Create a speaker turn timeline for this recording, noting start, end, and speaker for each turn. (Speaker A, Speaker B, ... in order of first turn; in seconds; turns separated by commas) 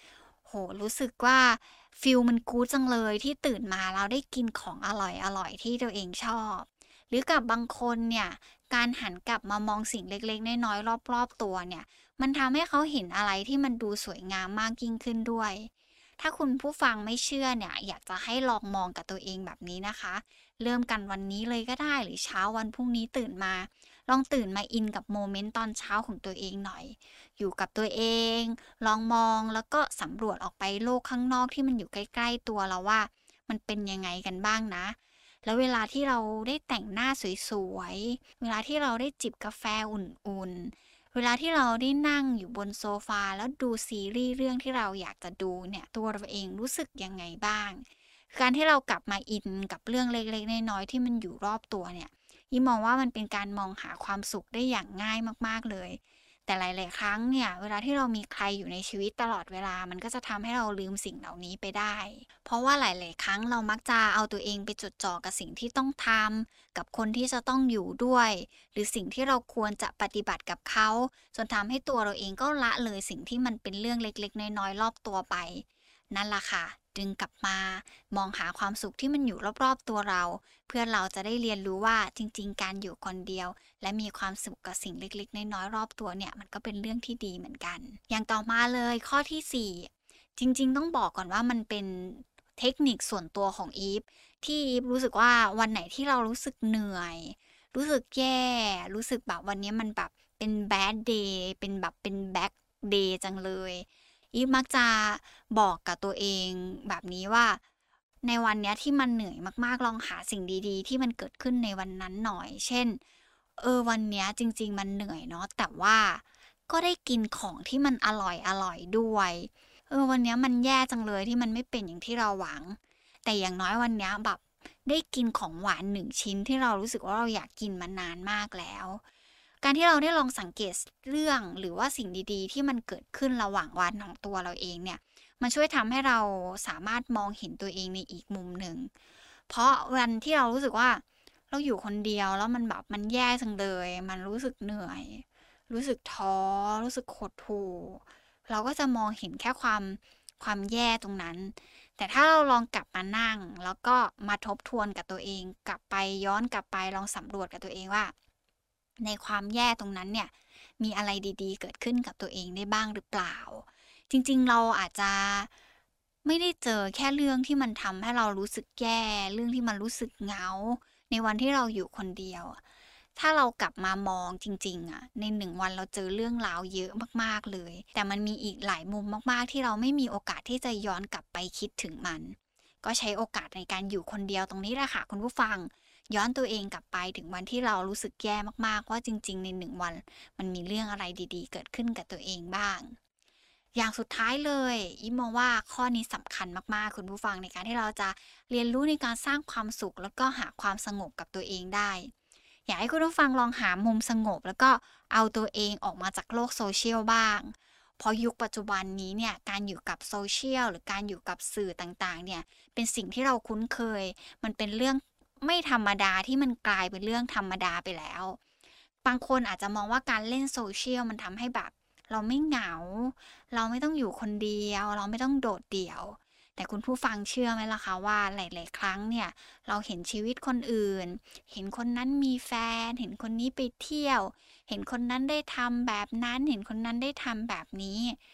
Speaker A: 0.5-107.6, Speaker A: 108.2-113.0, Speaker A: 113.6-129.0, Speaker A: 129.6-138.9, Speaker A: 139.5-158.1, Speaker A: 159.0-165.5, Speaker A: 166.2-172.6, Speaker A: 173.2-192.9, Speaker A: 193.7-202.1, Speaker A: 202.7-218.4, Speaker A: 219.0-238.2